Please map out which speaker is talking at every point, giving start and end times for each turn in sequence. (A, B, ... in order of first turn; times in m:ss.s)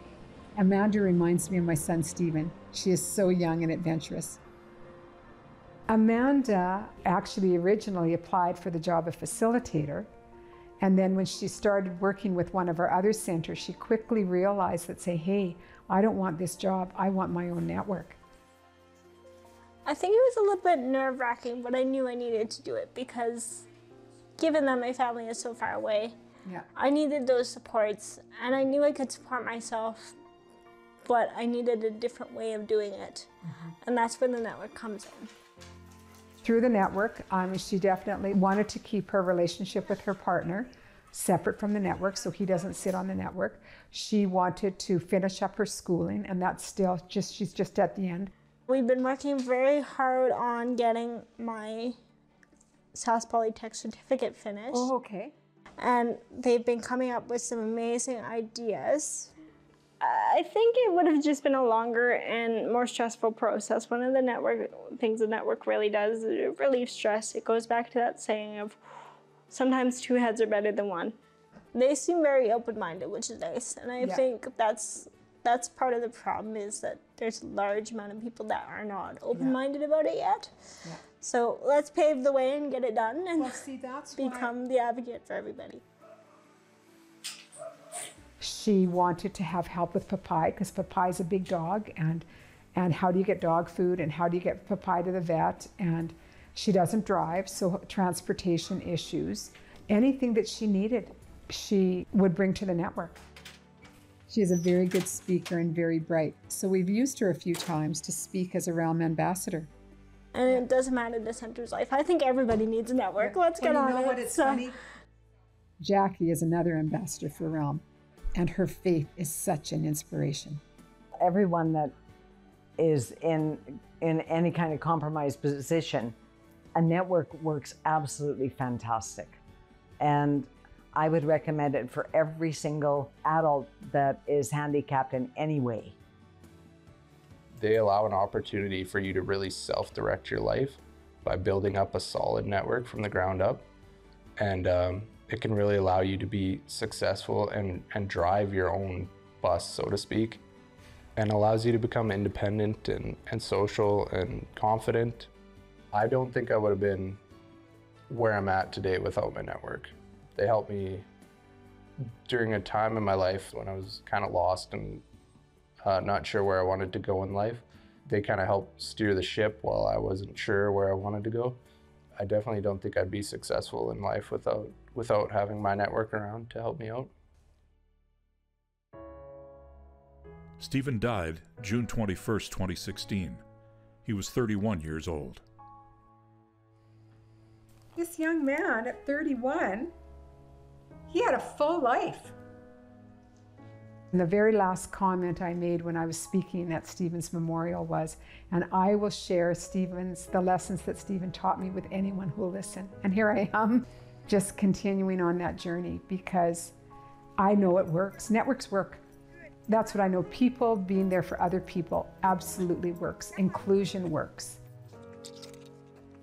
0:00.6-0:04.4 A
0:05.9-0:10.1 A
0:10.8-0:18.2 A
0:19.8-0:23.6 B
0:24.4-0:26.2 B
0:26.8-0:30.1 B
0:31.0-0:33.3 B
0:33.5-0:33.7 A
0:33.8-0:35.3 B
0:36.4-0:48.3 A
0:48.7-0:52.0 B
0:52.9-0:54.9 B
0:54.7-0:55.3 A
0:55.8-0:59.3 B
1:00.0-1:08.8 B
1:09.5-1:11.2 B
1:11.7-1:20.5 B
1:14.0-1:14.2 A
1:21.2-1:23.6 B
1:23.4-1:24.5 A
1:24.2-1:25.8 B
1:28.4-1:43.2 A
1:44.3-1:49.7 A
1:50.3-1:54.7 B
1:53.2-1:54.8 A
1:55.8-1:57.8 A
1:58.4-2:00.6 A
2:01.2-2:01.9 C
2:02.8-2:06.1 C
2:06.8-2:09.4 C
2:10.0-2:16.0 C
2:17.6-2:23.7 D
2:24.4-2:30.4 D
2:31.2-2:35.3 D
2:35.9-2:37.2 D
2:38.1-2:41.1 D
2:42.2-2:45.0 D
2:45.8-2:51.6 D
2:52.2-2:57.1 D
3:00.6-3:03.4 E
3:04.0-3:05.4 E
3:08.0-3:09.9 A
3:11.1-3:12.4 A
3:14.1-3:26.8 A
3:27.4-3:29.0 A
3:29.7-3:34.6 A